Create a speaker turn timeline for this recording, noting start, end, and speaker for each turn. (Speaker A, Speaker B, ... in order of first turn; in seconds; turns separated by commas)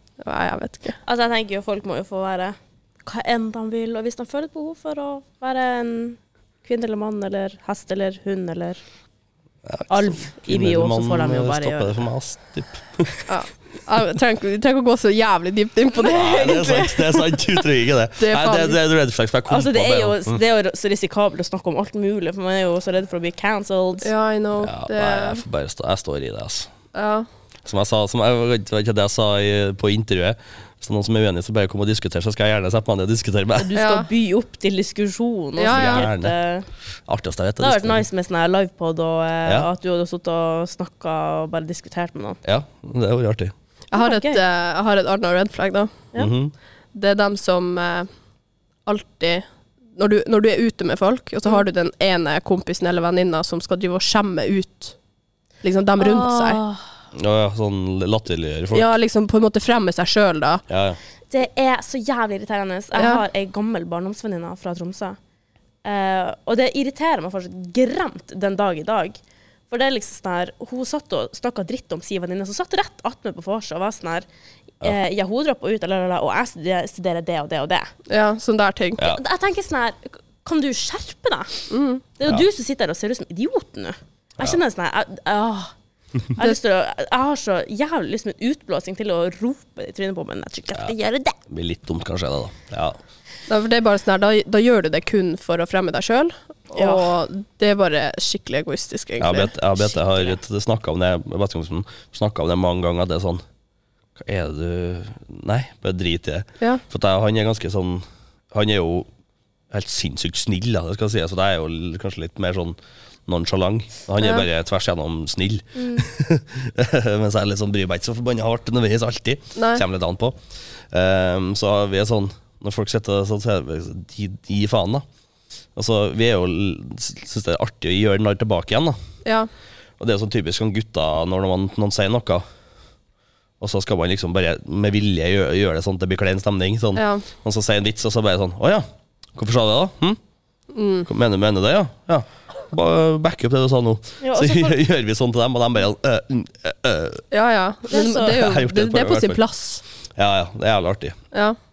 Speaker A: 0.2-1.0, Speaker B: 1.0-8.8, Speaker C: 9.6-13.1, Speaker B: 9.9-12.0, Speaker A: 13.3-17.6, Speaker C: 16.0-20.4, Speaker A: 18.2-18.8, Speaker B: 19.5-24.1, Speaker A: 24.0-25.4, Speaker C: 24.6-26.7, Speaker A: 26.9-27.3, Speaker C: 27.6-33.7, Speaker B: 33.6-36.7, Speaker A: 33.8-34.1, Speaker A: 35.6-36.1, Speaker C: 35.7-36.3, Speaker C: 37.0-38.0, Speaker B: 37.6-42.4, Speaker C: 42.4-43.5, Speaker A: 43.9-46.0, Speaker B: 43.9-44.4, Speaker C: 46.1-46.5, Speaker A: 46.9-48.1, Speaker A: 48.9-49.4, Speaker A: 50.0-55.0, Speaker A: 55.6-56.6, Speaker B: 56.0-56.9, Speaker C: 57.1-58.9, Speaker A: 58.7-60.6, Speaker C: 60.7-61.0, Speaker B: 61.3-65.2, Speaker A: 62.9-63.2, Speaker B: 65.8-69.2, Speaker B: 69.7-74.2, Speaker B: 74.8-77.9, Speaker A: 78.1-79.0, Speaker B: 79.0-81.5, Speaker A: 81.7-82.0, Speaker B: 82.2-85.7, Speaker B: 86.3-91.4, Speaker C: 91.5-93.0, Speaker A: 93.5-99.5, Speaker B: 96.7-97.1, Speaker C: 99.2-103.4, Speaker B: 99.9-100.3, Speaker C: 104.2-109.1, Speaker C: 109.7-120.4, Speaker B: 115.8-116.0, Speaker A: 119.5-119.8, Speaker C: 120.9-125.0, Speaker C: 125.8-129.0, Speaker A: 129.2-129.5, Speaker C: 130.0-132.4, Speaker C: 133.6-140.2, Speaker A: 136.9-137.2, Speaker A: 140.7-141.1, Speaker C: 141.0-147.2, Speaker B: 144.2-144.8, Speaker A: 147.3-149.8, Speaker B: 147.9-148.4, Speaker C: 148.2-149.4, Speaker C: 150.2-151.2, Speaker A: 151.3-151.6